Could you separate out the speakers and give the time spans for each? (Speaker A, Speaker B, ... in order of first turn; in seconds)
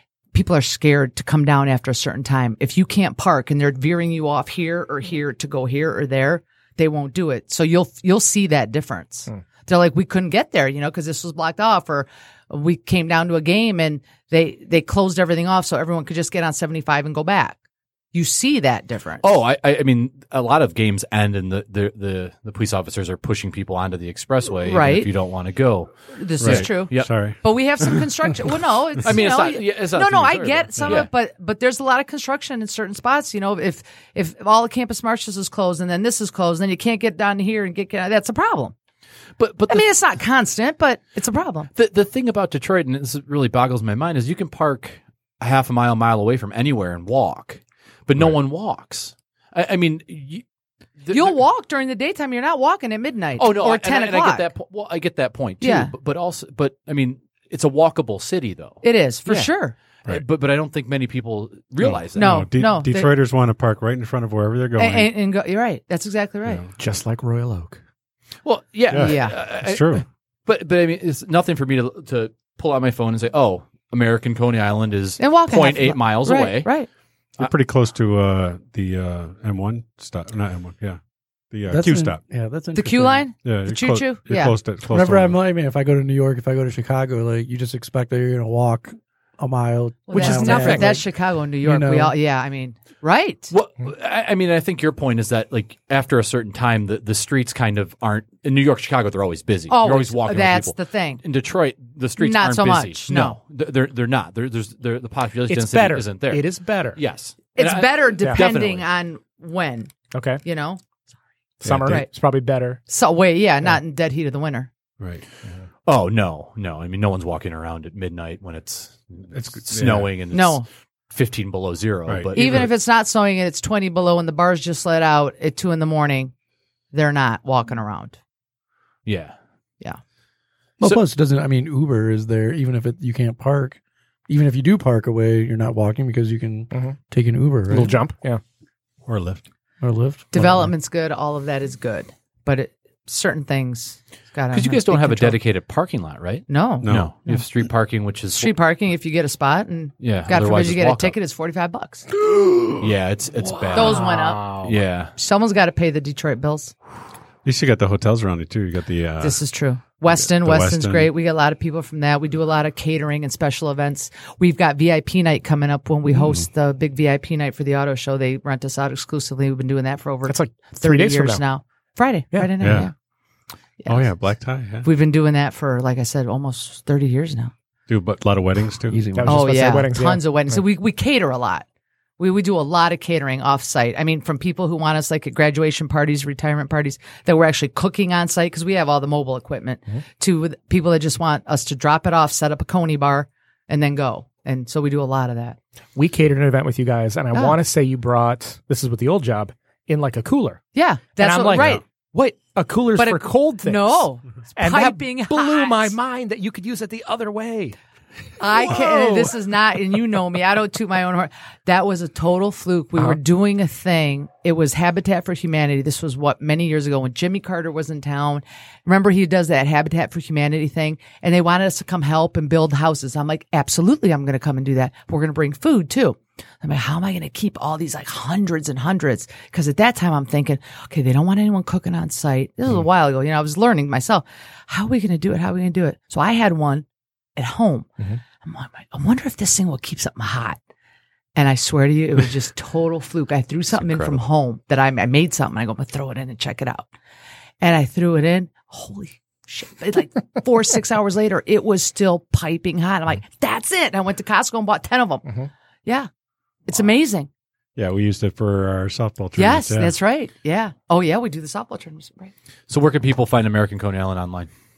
Speaker A: 0.3-17.6, 18.1-19.3, 24.6-25.1, 26.1-38.7, 39.7-41.7, 51.1-54.5, 55.6-55.9, 58.8-59.8, 61.8-63.1, 64.8-66.6, 69.0-69.4, 75.2-76.9, 82.7-84.6, 90.1-93.5, 99.7-101.2, 102.2-103.4, 107.6-109.9, 110.4-110.8, 111.8-112.1, 112.9-114.7, 120.3-120.7, 122.3-126.3, 126.9-128.2, 140.3-145.4, 146.5-147.4, 148.4-152.1, 153.7-154.5, 155.1-156.7, 159.2-172.9, 173.8-177.5, 179.3-181.7, 182.2-195.6, 197.3-197.6, 200.7-202.4, 202.9-205.9, 208.4-236.8, 237.4-237.9, 238.4-240.6, 241.3-246.9, 247.6-255.3, 256.7-257.3, 259.4-262.3
Speaker B: 19.2-27.1, 29.0-31.1, 39.4-39.9, 41.7-50.4, 51.0-51.4, 53.4-59.5, 60.0-62.4, 68.4-76.7, 93.5-108.9, 115.8-122.7, 129.1-129.3, 144.5-148.5, 150.0-151.2, 152.8-154.1, 154.6-155.1, 243.7-244.2, 262.7-264.5
Speaker C: 26.4-27.4, 62.2-65.1, 66.5-66.7, 68.9-70.0, 77.4-81.0, 81.5-82.2, 83.4-85.4, 111.6-112.0, 119.3-120.1, 122.1-122.7, 139.1-139.4, 146.8-147.1, 157.4-159.4, 160.2-161.1, 172.6-172.9, 173.9-174.9, 177.9-179.1, 201.5-201.8, 257.8-259.9
Speaker D: 66.8-67.8, 90.1-91.0, 105.5-107.0, 110.1-110.4, 111.6-112.8, 137.7-138.4, 153.8-154.7, 170.3-171.4, 172.3-172.7, 179.1-180.4, 195.9-201.8, 202.5-207.8, 208.6-209.3
Speaker E: 81.7-83.2, 84.9-91.0, 91.6-92.1, 130.8-138.0, 139.8-140.7, 178.9-179.7